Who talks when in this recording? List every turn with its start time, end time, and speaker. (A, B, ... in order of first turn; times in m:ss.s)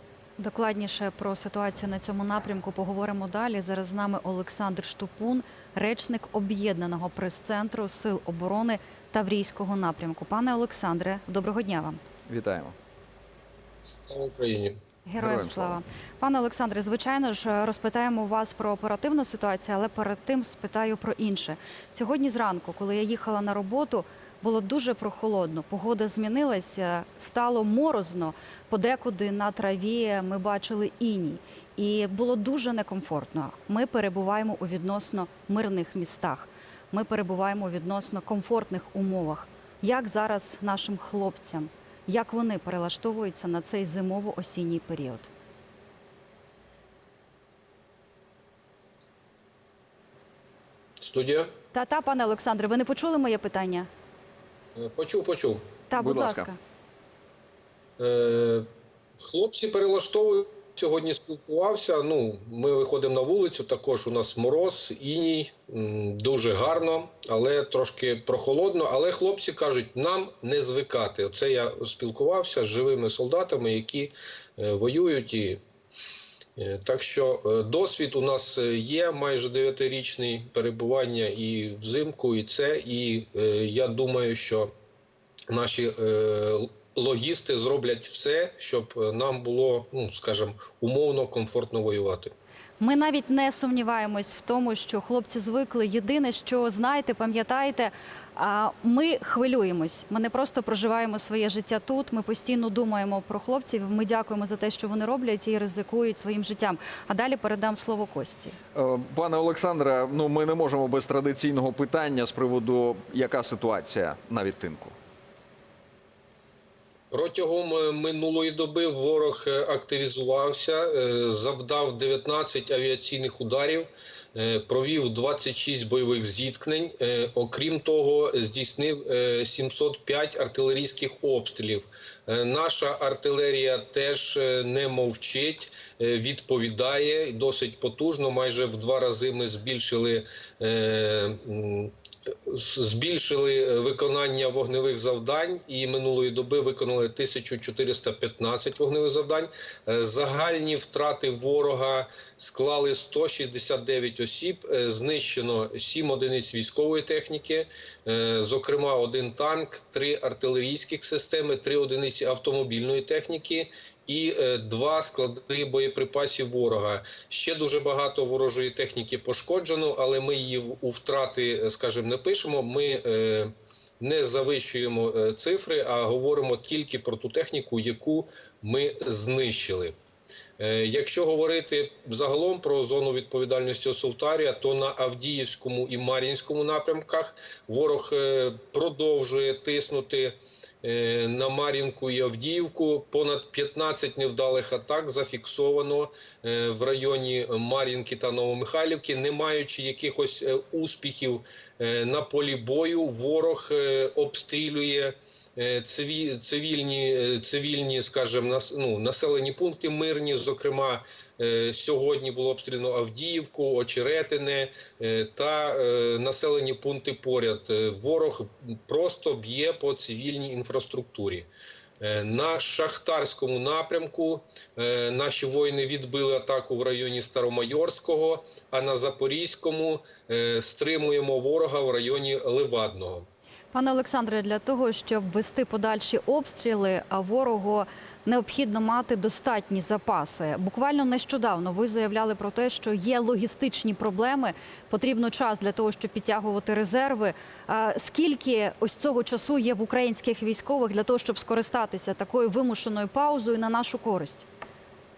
0:00.4-0:12.0 A
0:12.3-0:12.7 B
0:13.9-0:14.8 C
0:15.1-0:45.3 A
0:15.2-0:15.8 B
0:51.0-0:51.5 C
0:51.7-0:53.9 A
0:54.8-0:55.6 C
0:55.9-0:56.6 A
0:56.0-0:56.5 B
0:58.0-0:58.7 C
0:59.2-1:15.6 C
1:16.6-1:24.7 C
1:25.5-1:32.3 C
1:32.8-1:48.6 A
1:48.8-1:55.0 B
1:57.1-2:21.9 C
2:22.5-3:00.0 C
3:00.6-3:41.5 C
3:42.0-3:53.3 C
3:53.7-4:14.5 A